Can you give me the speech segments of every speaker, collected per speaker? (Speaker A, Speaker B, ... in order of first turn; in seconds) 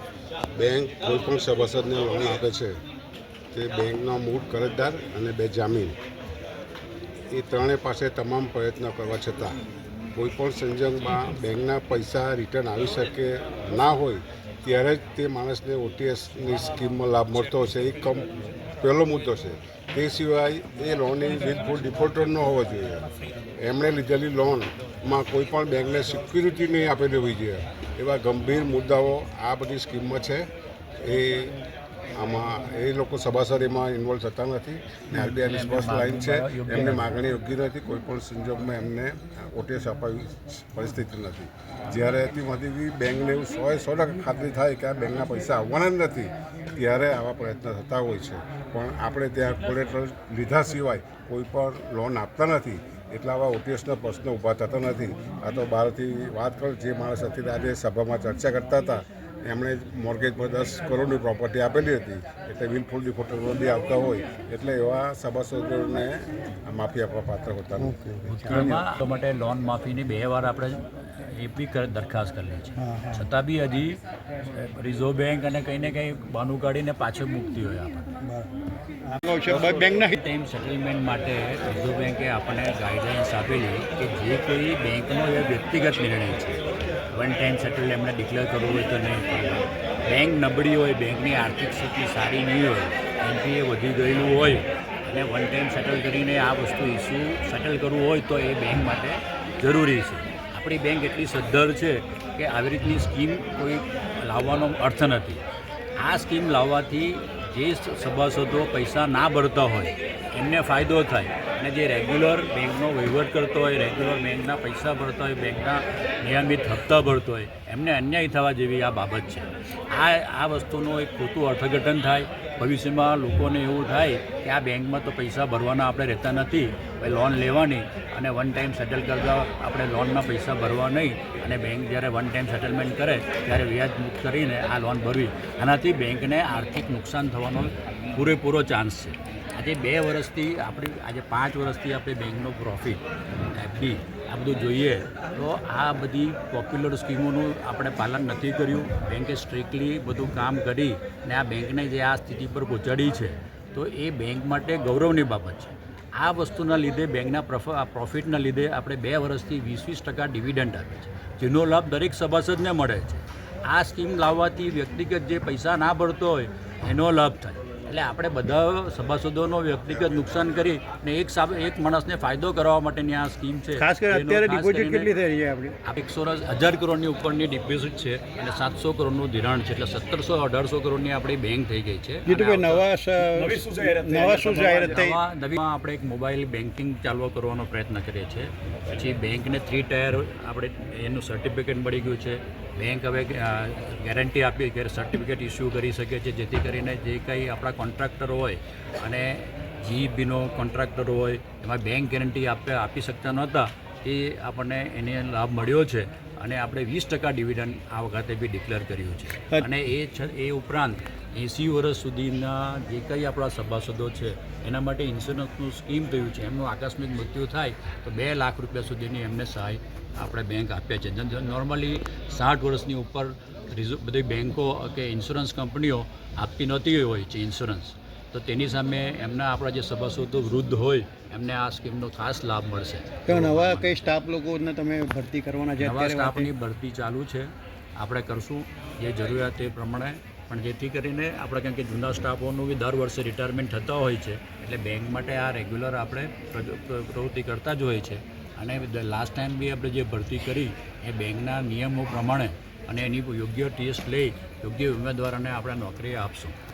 Speaker A: 0.6-2.8, 3.5-6.0, 7.3-9.6, 10.1-23.1, 23.6-30.5, 31.0-31.6, 32.1-68.0
Speaker B: 35.1-37.1, 68.2-74.0, 74.5-78.0, 79.4-86.6, 87.1-105.4, 106.0-143.0, 143.5-175.1, 175.8-234.0, 235.8-256.6
Speaker C: 67.8-68.8, 72.8-73.2, 79.1-80.2, 173.8-175.8, 182.3-185.2, 233.3-236.5